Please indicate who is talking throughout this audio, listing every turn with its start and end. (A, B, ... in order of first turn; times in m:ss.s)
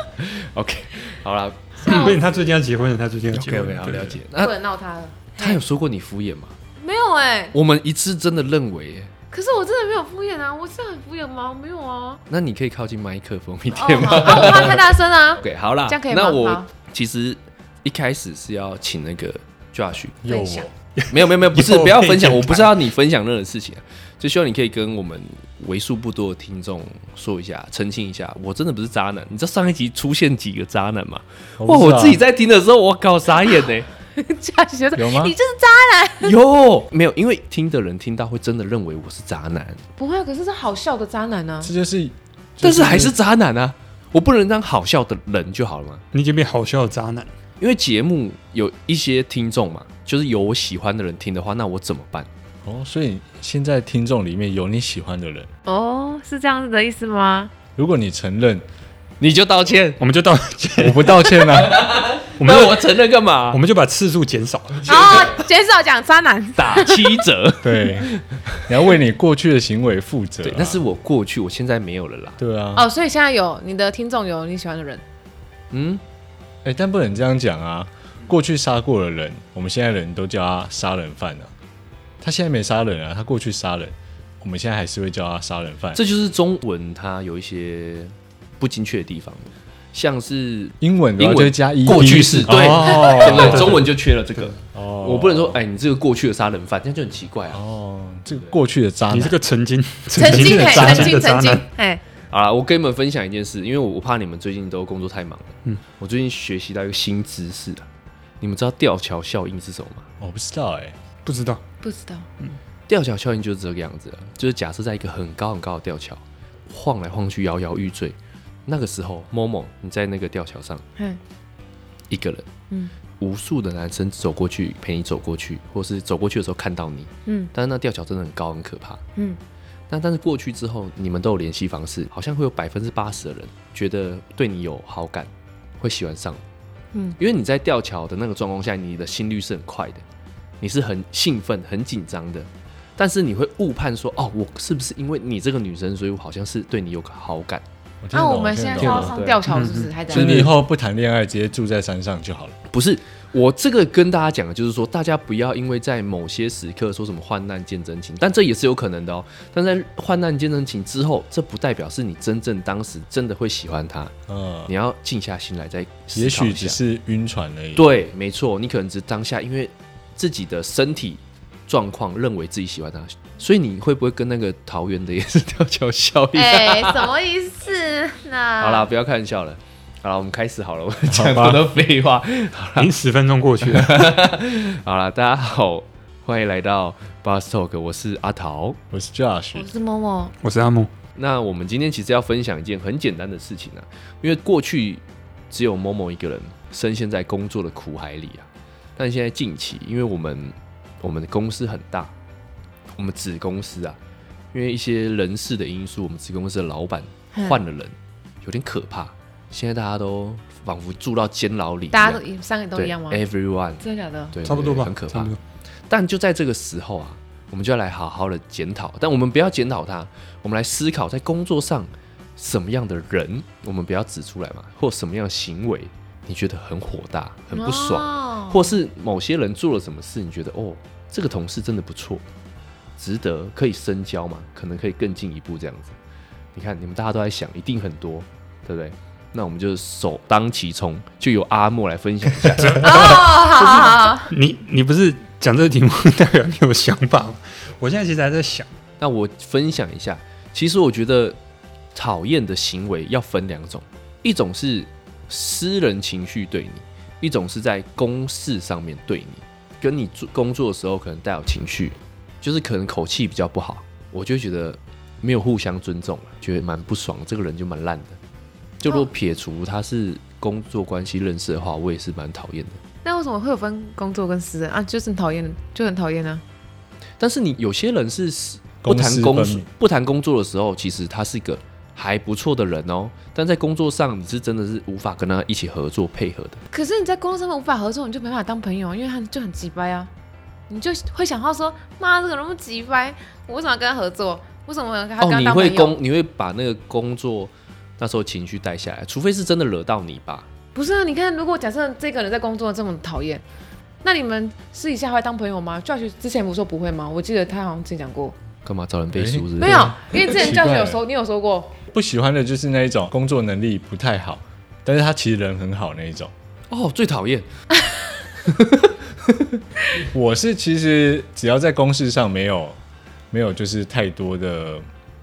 0:00.2-0:02.2 A
0:01.8-0:02.2 B
0:01.8-0:04.2 C
0:03.3-0:04.5 A
0:04.4-0:05.6 B
0:05.4-0:06.6 A
0:06.8-0:07.6 B
0:07.5-0:09.1 A
0:09.3-0:12.2 B
0:12.3-0:14.8 A
0:13.7-0:16.7 B
0:15.4-0:20.2 A
0:20.2-0:20.7 D
0:20.3-0:20.7 B
0:21.0-0:22.8 C
0:21.1-0:33.9 A
0:31.6-0:32.2 D
0:34.2-0:36.4 B
0:34.9-0:35.4 D
0:36.2-0:39.8 A
0:40.0-0:41.7 B
0:41.6-0:43.2 D
0:42.6-0:46.0 A
0:46.1-0:47.3 C
0:47.6-0:52.3 A
0:52.6-0:55.5 D
0:55.7-0:57.5 B
0:57.8-0:58.6 D
0:59.2-1:00.0 A
1:00.0-1:01.7 C
1:00.8-1:02.0 D
1:01.6-1:03.6 A
1:02.4-1:02.9 C
1:03.5-1:04.9 C
1:04.8-1:07.2 B
1:04.9-1:05.3 A
1:06.6-1:08.6 A
1:07.6-1:10.8 D
1:10.4-1:12.4 A
1:12.4-1:12.9 D
1:12.8-1:15.0 B
1:15.7-1:16.0 A
1:16.6-1:21.5 D
1:22.2-1:26.0 D
1:25.9-1:37.6 A
1:30.8-1:33.8 D
1:32.0-1:34.6 C
1:34.7-1:35.6 D
1:37.5-1:39.4 D
1:39.1-1:41.7 C
1:40.2-1:42.0 B
1:40.2-1:41.2 D
1:42.3-1:47.9 A
1:48.4-1:50.1 A
1:50.2-1:51.0 D
1:51.2-1:51.6 C
1:51.8-1:52.3 B
1:52.9-2:00.8 A
2:02.1-2:02.5 A
2:03.2-2:09.0 A
2:07.3-2:07.5 B
2:09.9-2:16.4 A
2:16.9-2:17.2 B
2:17.2-2:20.0 A
2:20.6-2:27.6 A
2:28.0-2:29.2 D
2:28.1-2:30.4 B
2:28.8-2:29.5 A
2:29.5-2:30.3 C
2:30.1-2:32.6 D
2:30.2-2:30.5 A
2:32.7-2:44.1 A
2:44.3-2:44.7 D
2:44.7-2:46.8 A
2:46.2-2:47.9 D
2:47.8-2:57.1 A
2:56.3-2:58.9 B
2:58.6-3:02.9 A
3:01.1-3:01.6 D
3:02.8-3:04.2 C
3:03.7-3:08.8 A
3:08.9-3:09.7 D
3:09.6-3:10.3 B
3:10.4-3:10.9 C
3:11.2-3:22.1 A
3:23.0-3:24.0 A
3:24.5-3:32.2 A
3:27.3-3:27.6 B
3:31.9-3:33.2 B
3:32.8-3:35.3 A
3:33.8-3:34.4 B
3:34.4-3:35.4 C
3:35.9-3:52.2 A
3:47.5-3:48.7 B
3:53.0-3:56.0 A
3:56.6-4:03.2 A
4:02.6-4:08.7 C
4:02.8-4:04.3 B
4:09.0-4:11.4 A
4:12.0-4:28.2 A
4:28.8-4:32.8 A
4:33.0-4:36.4 B
4:37.2-4:46.6 A
4:38.8-4:39.7 D
4:46.7-4:50.1 B
4:50.7-4:56.0 B
4:55.2-5:00.5 A
5:00.7-5:03.4 B
5:04.0-5:08.4 B
5:08.6-5:10.0 A
5:09.2-5:11.0 D
5:09.6-5:11.8 B
5:11.9-5:16.3 D
5:16.7-5:17.5 A
5:18.4-5:19.6 A
5:20.0-5:22.8 D
5:23.3-5:24.8 D